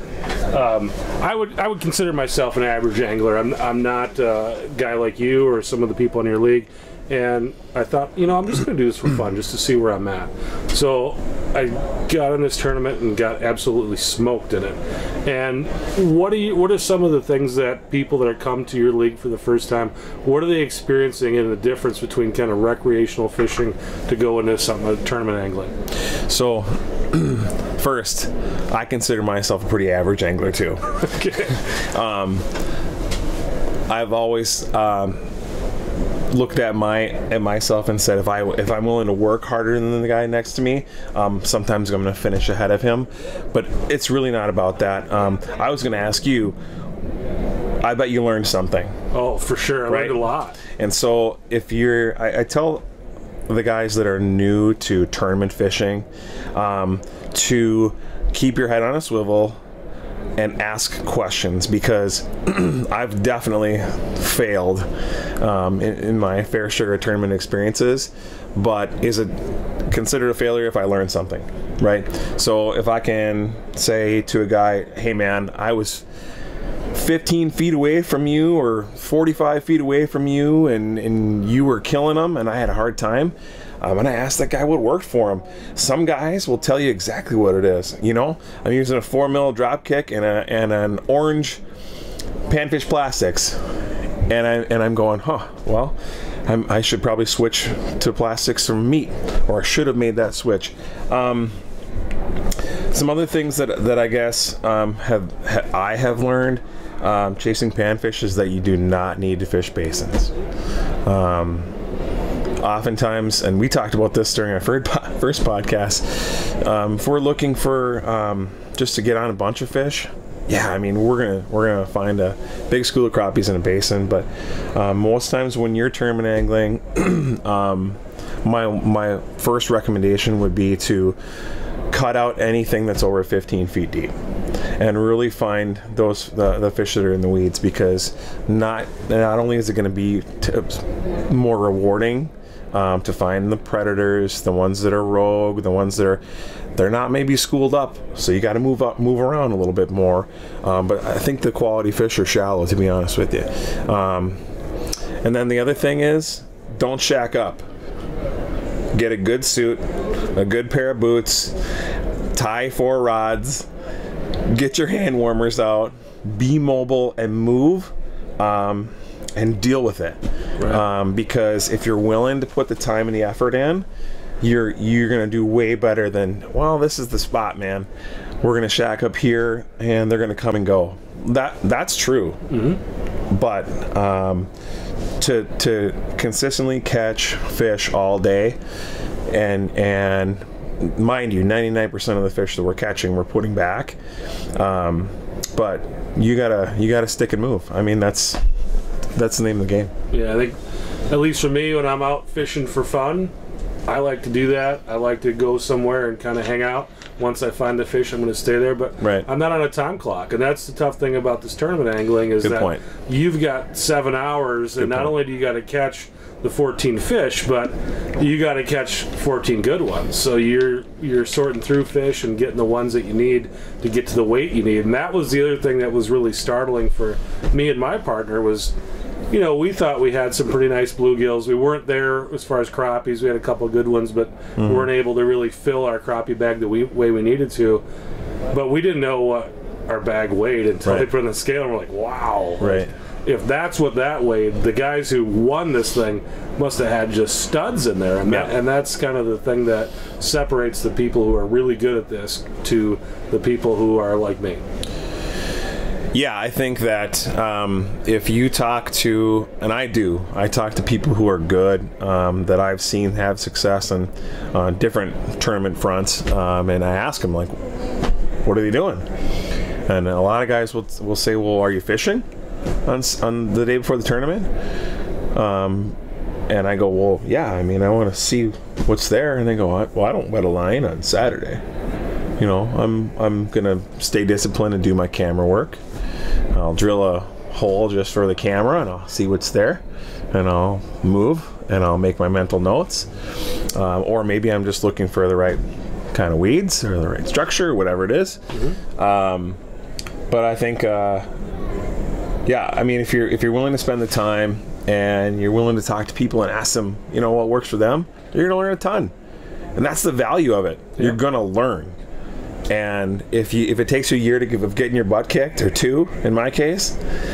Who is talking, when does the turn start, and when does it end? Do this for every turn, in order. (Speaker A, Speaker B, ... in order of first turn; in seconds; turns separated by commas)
Speaker A: 0.5-25.7, Speaker B: 26.3-32.5, Speaker A: 31.0-31.6, Speaker B: 33.9-35.3, Speaker B: 36.3-46.6, Speaker B: 47.8-48.9, Speaker A: 49.1-50.6, Speaker B: 49.9-50.2, Speaker B: 50.8-52.8, Speaker B: 53.5-59.6, Speaker B: 60.4-64.9, Speaker B: 65.4-76.0, Speaker B: 76.9-91.6, Speaker B: 92.5-93.6, Speaker B: 94.3-101.5, Speaker B: 102.9-110.3, Speaker B: 111.0-111.7, Speaker B: 112.6-131.2, Speaker B: 131.9-134.1, Speaker B: 134.8-146.2, Speaker B: 146.8-154.4, Speaker B: 155.2-157.6, Speaker B: 158.9-161.6, Speaker B: 162.3-163.7, Speaker B: 164.5-173.9, Speaker B: 174.4-177.9, Speaker B: 178.4-182.4, Speaker A: 182.5-182.8, Speaker B: 183.3-184.5, Speaker B: 185.2-188.6, Speaker B: 189.3-194.0, Speaker B: 194.6-198.4, Speaker B: 199.2-199.9, Speaker A: 200.1-200.6, Speaker A: 201.1-203.3, Speaker A: 203.9-228.7, Speaker B: 209.0-209.2, Speaker B: 212.4-212.8, Speaker B: 214.8-215.2, Speaker A: 229.3-237.8, Speaker B: 234.6-234.9, Speaker A: 238.5-254.6, Speaker B: 242.6-242.9, Speaker B: 256.1-267.6, Speaker B: 268.4-269.1, Speaker B: 269.9-272.2, Speaker B: 272.9-274.5, Speaker B: 275.3-275.9, Speaker B: 276.5-281.6, Speaker B: 282.4-285.8, Speaker B: 286.5-289.8, Speaker B: 290.3-295.6, Speaker B: 296.1-298.4, Speaker A: 298.5-298.8, Speaker B: 299.0-299.6, Speaker B: 300.3-301.3, Speaker B: 302.4-309.1, Speaker B: 309.8-311.9, Speaker B: 312.7-317.0